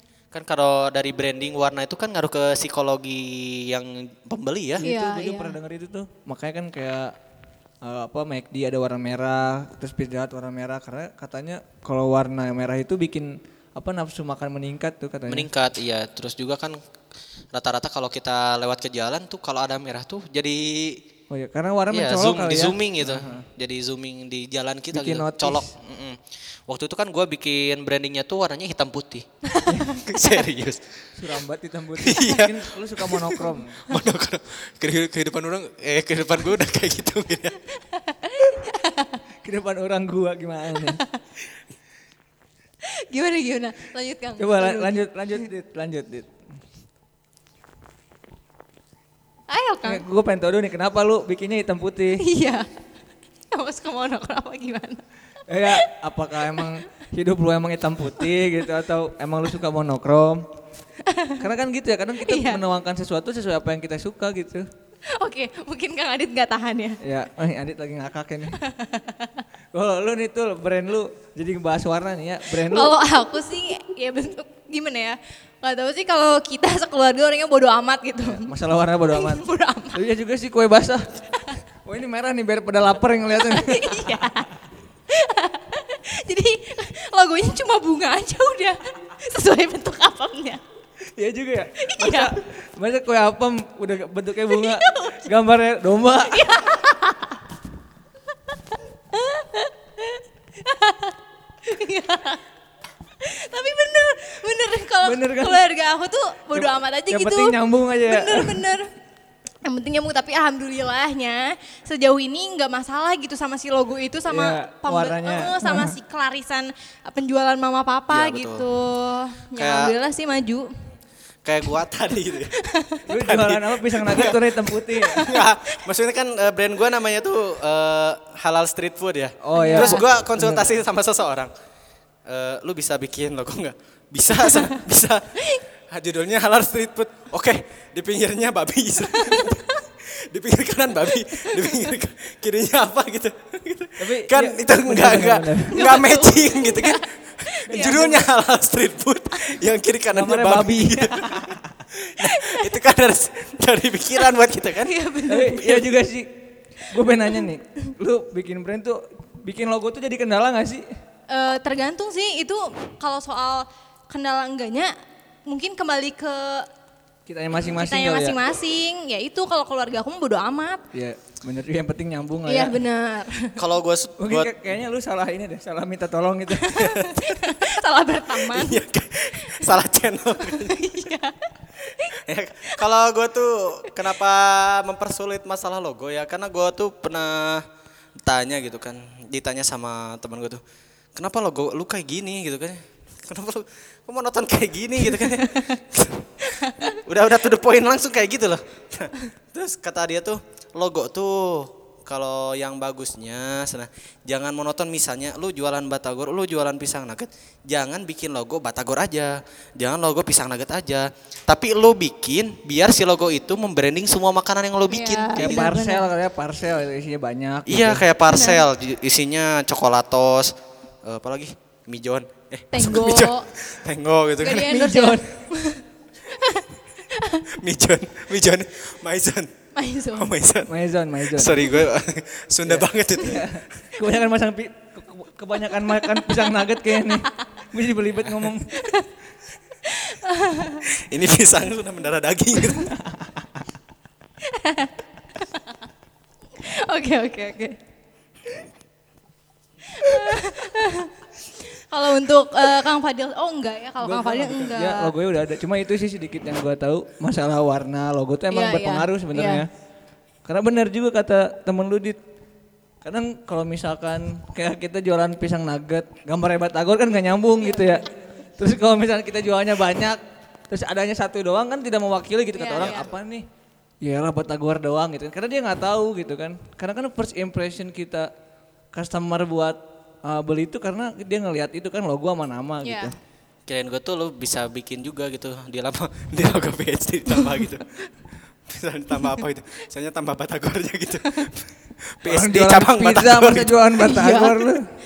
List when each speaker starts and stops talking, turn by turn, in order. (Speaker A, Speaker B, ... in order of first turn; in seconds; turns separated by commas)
Speaker A: 0.3-4.8, Speaker B: 4.8-7.2, Speaker C: 4.8-5.6, Speaker B: 7.8-15.5, Speaker A: 15.3-16.8, Speaker A: 17.5-21.0, Speaker B: 21.3-23.5, Speaker A: 21.9-29.3, Speaker B: 24.9-25.7, Speaker C: 29.5-30.4, Speaker B: 29.7-30.0, Speaker A: 30.0-30.8, Speaker B: 31.1-33.9, Speaker A: 32.0-37.6, Speaker C: 37.9-39.2, Speaker B: 39.4-41.0, Speaker C: 40.9-41.2, Speaker C: 42.9-45.4, Speaker B: 44.4-46.3, Speaker C: 49.5-50.0, Speaker B: 49.9-52.2, Speaker C: 52.2-52.7, Speaker C: 53.5-55.0, Speaker B: 55.5-60.5, Speaker C: 61.0-61.4, Speaker B: 61.4-64.7, Speaker C: 62.2-62.6, Speaker C: 65.1-67.0, Speaker B: 67.0-68.6, Speaker C: 68.6-69.4, Speaker B: 69.7-73.0, Speaker C: 72.5-78.5, Speaker B: 78.2-81.2, Speaker C: 79.1-80.0, Speaker B: 81.8-84.3, Speaker C: 83.4-84.5, Speaker C: 85.1-90.6, Speaker B: 91.2-96.7, Speaker C: 91.8-92.3, Speaker C: 94.5-95.3, Speaker C: 96.2-97.4, Speaker C: 98.5-102.4, Speaker C: 103.2-108.9, Speaker B: 105.0-105.6, Speaker B: 106.5-108.7, Speaker C: 109.6-120.7, Speaker B: 114.3-116.0, Speaker A: 118.1-118.7, Speaker A: 119.6-119.9, Speaker A: 121.5-122.6, Speaker C: 122.6-123.0, Speaker B: 123.1-125.3, Speaker A: 123.2-131.5, Speaker C: 125.0-125.8, Speaker B: 129.4-130.8, Speaker C: 129.5-130.0, Speaker A: 132.3-135.3, Speaker A: 135.9-155.0, Speaker C: 139.1-139.8, Speaker C: 141.3-141.9, Speaker B: 144.0-145.9, Speaker C: 145.7-148.2, Speaker B: 147.7-148.2, Speaker B: 150.1-151.8, Speaker C: 152.2-152.8, Speaker C: 154.8-155.9, Speaker B: 155.3-160.9, Speaker C: 157.1-157.4, Speaker C: 161.3-164.9, Speaker C: 165.5-166.7, Speaker B: 167.3-168.4, Speaker C: 167.6-170.8, Speaker B: 170.9-172.8, Speaker C: 172.5-173.6, Speaker A: 173.6-174.5, Speaker B: 174.2-176.8, Speaker C: 176.5-178.8, Speaker A: 176.8-177.6, Speaker A: 178.3-181.1, Speaker C: 179.4-179.7, Speaker C: 180.4-182.8, Speaker A: 182.1-187.7, Speaker A: 188.2-190.6, Speaker A: 191.2-215.7, Speaker C: 195.2-195.8, Speaker C: 196.4-197.0, Speaker C: 214.9-216.1, Speaker B: 215.4-218.1, Speaker A: 217.7-224.8, Speaker C: 218.3-218.6, Speaker C: 222.7-223.5, Speaker C: 224.4-227.5, Speaker B: 224.6-225.3, Speaker A: 227.5-229.5, Speaker C: 229.8-230.3, Speaker A: 230.1-233.6, Speaker B: 230.7-231.8, Speaker B: 232.7-238.7, Speaker C: 238.7-239.1, Speaker C: 239.8-240.8, Speaker A: 240.8-243.0, Speaker B: 243.1-243.4, Speaker C: 244.4-245.7, Speaker C: 246.6-247.8, Speaker C: 249.9-251.1, Speaker C: 251.7-255.1, Speaker B: 254.0-259.7, Speaker C: 258.5-259.6, Speaker B: 260.4-262.2, Speaker B: 263.0-273.5, Speaker C: 272.6-273.1, Speaker B: 274.0-278.3, Speaker B: 278.9-283.1, Speaker C: 282.8-283.1, Speaker A: 283.7-288.1, Speaker A: 288.7-293.8, Speaker B: 292.2-294.9, Speaker C: 294.0-294.7